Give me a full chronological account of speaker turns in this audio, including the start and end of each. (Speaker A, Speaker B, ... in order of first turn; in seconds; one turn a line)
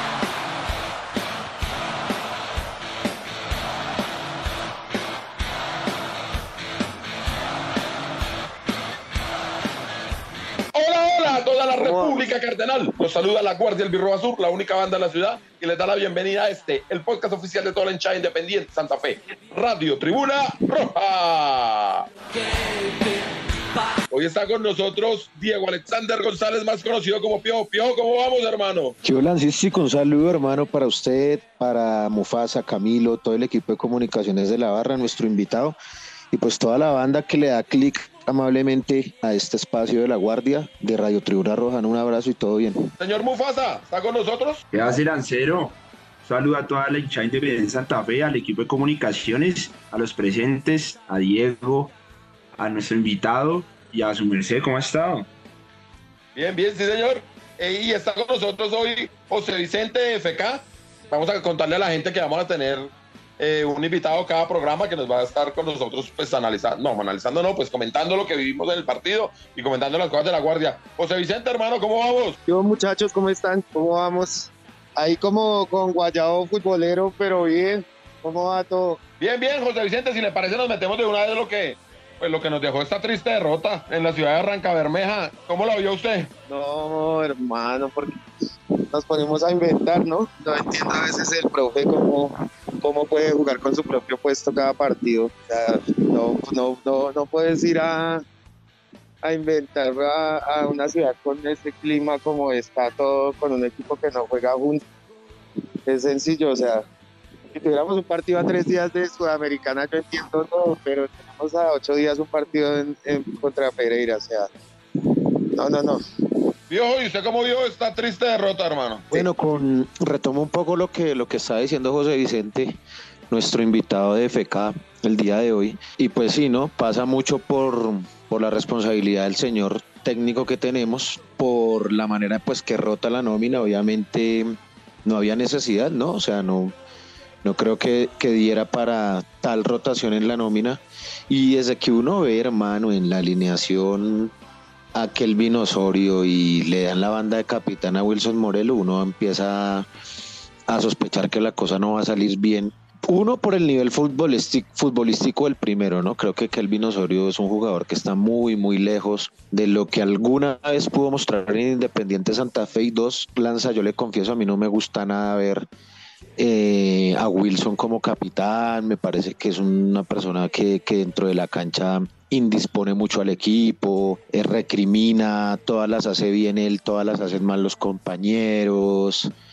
Speaker A: 10.7-22.1
Speaker B: 11.8-12.3
Speaker A: 24.1-28.9
Speaker C: 29.0-35.8
Speaker C: 36.3-42.9
Speaker A: 43.0-44.6
Speaker D: 44.7-51.9
Speaker D: 52.6-55.3
Speaker A: 56.3-72.4
Speaker B: 72.5-79.0
Speaker A: 79.2-86.3
Speaker B: 86.5-88.2
Speaker B: 88.9-98.2
Speaker B: 99.2-104.8
Speaker B: 105.8-106.8
Speaker B: 107.5-114.5
Speaker B: 115.6-116.0
Speaker A: 116.7-119.2
Speaker C: 119.1-122.8
Speaker C: 123.3-136.7
Speaker C: 137.4-144.3
Speaker C: 144.9-149.9
Speaker C: 150.7-165.7
Speaker C: 166.4-179.3